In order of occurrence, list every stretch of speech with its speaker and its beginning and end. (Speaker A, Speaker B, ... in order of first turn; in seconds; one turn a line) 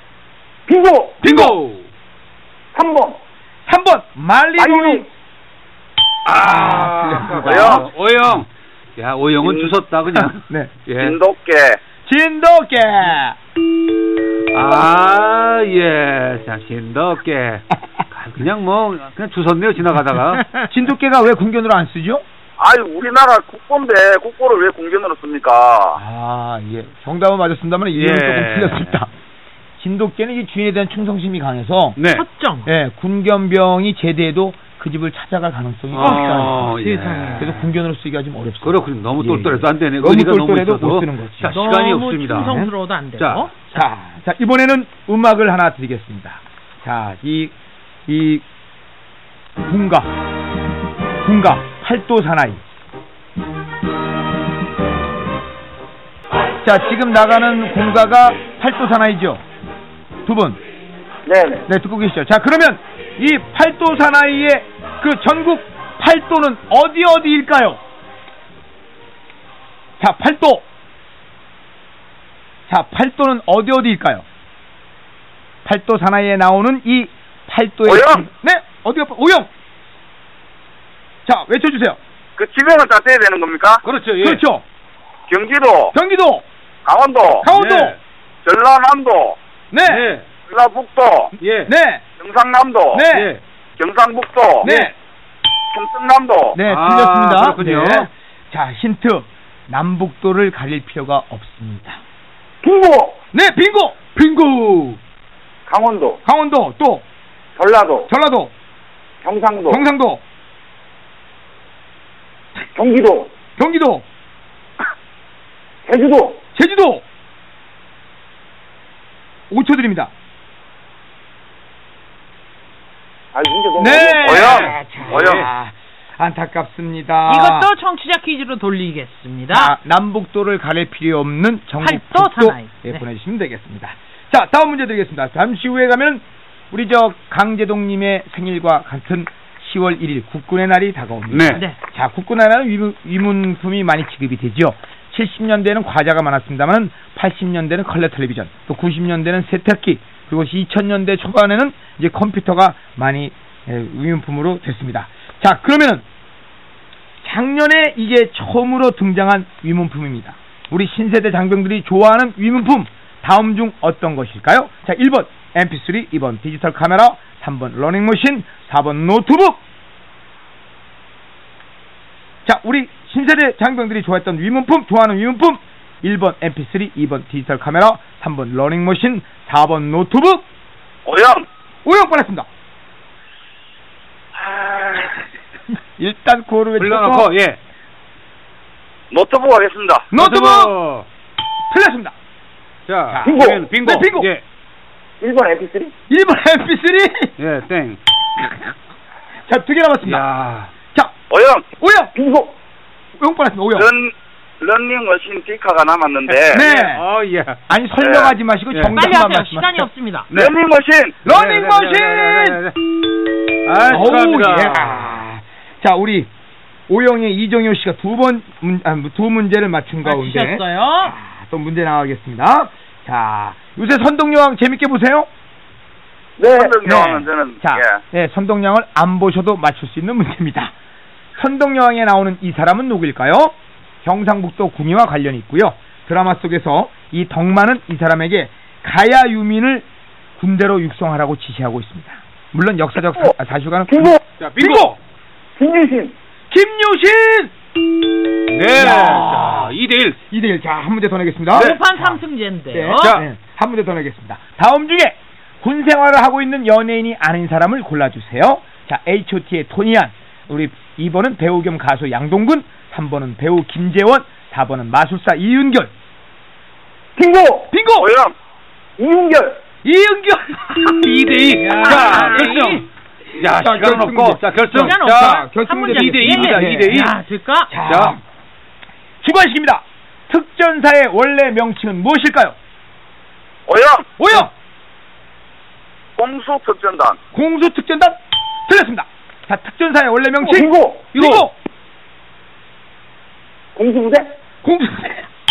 Speaker A: 0.7-1.2
Speaker B: 1.2-1.6
Speaker C: 1.2-1.8
Speaker A: 2.8-3.2
Speaker B: 3.7-5.1
Speaker A: 4.6-5.1
Speaker C: 6.2-11.2
Speaker B: 6.3-7.9
Speaker D: 7.4-7.8
Speaker D: 9.4-9.7
Speaker B: 10.2-10.7
Speaker D: 11.0-11.8
Speaker B: 12.1-13.4
Speaker C: 14.5-20.5
Speaker B: 20.6-22.2
Speaker D: 22.6-26.0
Speaker B: 25.9-29.1
Speaker C: 27.9-29.0
Speaker B: 29.8-32.0
Speaker C: 32.0-32.2
Speaker E: 32.1-32.7
Speaker B: 32.7-36.7
Speaker C: 35.9-37.6
Speaker E: 36.0-37.5
Speaker B: 37.4-41.6
Speaker C: 38.6-42.5
Speaker E: 41.5-43.9
Speaker B: 42.3-42.7
Speaker C: 43.2-43.5
Speaker B: 43.7-47.5
Speaker B: 48.1-48.4
Speaker B: 49.6-50.1
Speaker B: 51.2-52.6
Speaker B: 56.6-59.4
Speaker B: 60.2-60.6
Speaker A: 61.3-61.6
Speaker B: 61.7-67.8
Speaker B: 70.0-70.7
Speaker B: 72.7-74.2
Speaker B: 75.6-79.5
Speaker D: 77.8-78.2
Speaker B: 81.2-82.0
Speaker D: 82.4-83.8
Speaker C: 83.8-84.4
Speaker B: 84.2-84.6
Speaker D: 85.3-85.9
Speaker B: 85.9-86.4
Speaker D: 86.9-87.5
Speaker B: 87.4-88.0
Speaker C: 87.5-88.0
Speaker D: 88.5-89.4
Speaker B: 89.7-90.1
Speaker C: 89.8-90.3
Speaker D: 90.5-91.3
Speaker C: 91.4-91.7
Speaker B: 91.7-92.0
Speaker D: 92.2-93.0
Speaker B: 92.9-93.3
Speaker C: 93.1-93.4
Speaker D: 93.8-94.7
Speaker B: 94.6-94.9
Speaker C: 94.6-94.9
Speaker D: 95.7-96.6
Speaker B: 96.5-102.0
Speaker C: 96.7-98.1
Speaker A: 102.6-103.2
Speaker B: 103.3-104.2
Speaker C: 104.2-105.0
Speaker A: 105.7-106.2
Speaker B: 106.2-107.0
Speaker A: 107.6-108.1
Speaker B: 108.1-108.5
Speaker A: 109.2-109.8
Speaker B: 109.7-110.2
Speaker A: 112.8-113.3
Speaker B: 113.6-114.0
Speaker A: 115.9-116.4
Speaker B: 116.5-117.0
Speaker B: 119.5-120.1
Speaker A: 123.3-124.5
Speaker B: 123.8-127.7
Speaker D: 124.2-125.4
Speaker C: 124.2-125.5
Speaker E: 127.3-129.8
Speaker B: 129.5-156.1
Speaker E: 131.8-133.0
Speaker C: 141.3-141.6
Speaker B: 157.2-169.6
Speaker B: 172.4-180.4
Speaker D: 181.1-181.5
Speaker B: 181.8-182.5
Speaker D: 184.4-185.1
Speaker B: 186.0-187.3
Speaker C: 186.8-187.6
Speaker D: 189.1-190.1
Speaker B: 190.1-190.7
Speaker C: 190.2-191.1
Speaker B: 191.7-192.1
Speaker C: 192.9-194.4
Speaker B: 193.1-194.3
Speaker A: 193.3-193.7
Speaker A: 195.2-195.9
Speaker B: 196.1-197.3
Speaker C: 197.4-198.0
Speaker B: 199.5-200.3
Speaker C: 200.1-200.7
Speaker D: 201.3-201.7
Speaker B: 201.8-202.1
Speaker A: 202.2-202.5
Speaker B: 203.2-203.9
Speaker D: 203.7-206.6
Speaker B: 206.5-207.1
Speaker C: 206.5-207.6
Speaker B: 207.7-209.9
Speaker D: 208.0-208.3
Speaker C: 208.7-209.0
Speaker E: 208.9-210.3
Speaker D: 210.3-211.2
Speaker B: 211.2-212.6
Speaker C: 211.2-212.8
Speaker C: 213.7-215.2
Speaker B: 213.8-216.3
Speaker B: 216.9-225.3
Speaker E: 220.0-221.2
Speaker A: 226.4-226.8
Speaker D: 226.5-228.0
Speaker B: 226.8-230.7
Speaker B: 231.3-239.9
Speaker B: 240.4-244.9
Speaker A: 243.9-244.2
Speaker C: 244.4-245.0
Speaker A: 245.6-246.1
Speaker B: 246.5-247.5
Speaker C: 248.5-250.2
Speaker B: 248.8-249.8
Speaker B: 250.3-252.2
Speaker E: 251.5-253.1
Speaker B: 252.7-265.9
Speaker C: 253.0-253.2
Speaker A: 267.2-267.7
Speaker B: 267.7-268.1
Speaker D: 267.9-268.3
Speaker A: 269.0-269.6
Speaker B: 269.8-272.9
Speaker C: 270.8-272.9
Speaker E: 271.6-272.8
Speaker C: 273.4-277.1
Speaker B: 273.4-277.0
Speaker E: 274.7-277.7
Speaker B: 277.7-278.2
Speaker C: 277.9-278.1
Speaker B: 279.2-282.6
Speaker D: 283.7-284.1
Speaker B: 284.2-284.5
Speaker D: 286.2-287.2
Speaker B: 287.3-291.5
Speaker A: 290.4-291.1
Speaker C: 291.1-291.5
Speaker A: 293.8-294.3
Speaker B: 294.6-295.3